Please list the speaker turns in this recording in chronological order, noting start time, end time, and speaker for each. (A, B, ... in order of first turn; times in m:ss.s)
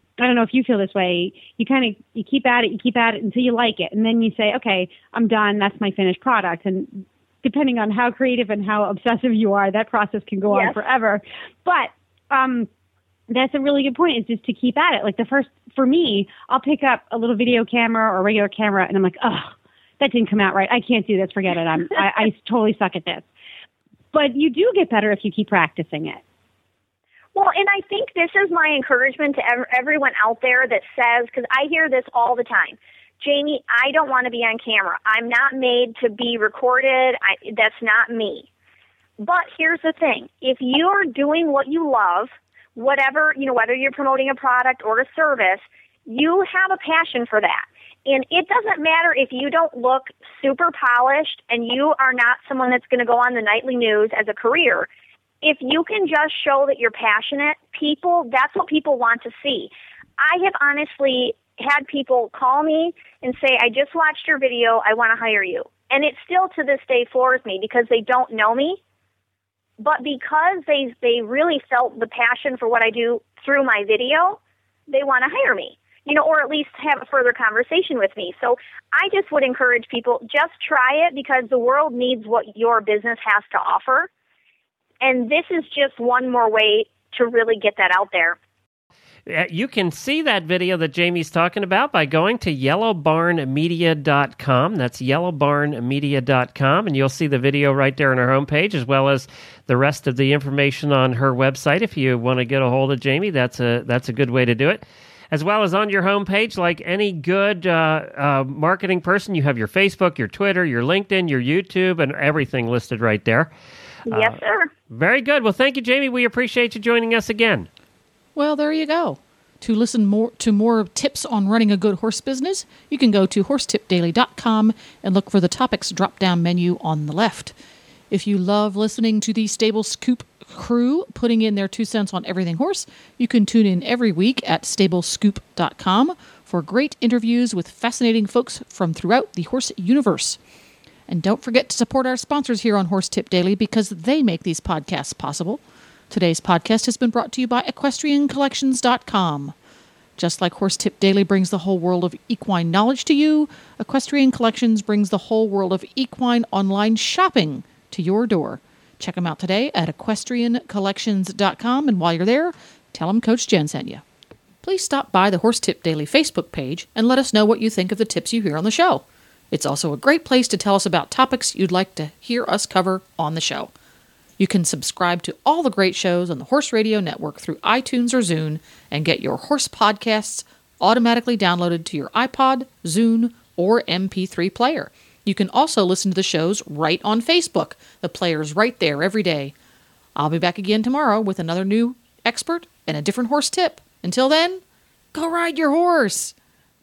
0:00.2-0:12.7 A
0:10.5-0:10.8 B
0:13.3-0:23.3 A
0:24.1-0:26.2 A
0:27.4-0:38.5 B
0:39.2-0:54.9 B
0:55.4-1:08.8 B
1:09.8-1:24.1 B
1:25.0-1:28.4 B
1:29.3-1:53.5 C
1:54.1-1:54.7 B
1:54.1-1:54.4 C
1:54.9-1:57.7 C
1:58.4-2:07.5 D
2:08.1-2:20.4 D
2:21.1-2:29.5 D
2:30.2-2:44.0 D
2:44.6-2:53.7 D
2:54.4-3:09.5 D
3:10.2-3:14.6 D
3:15.1-3:16.3 D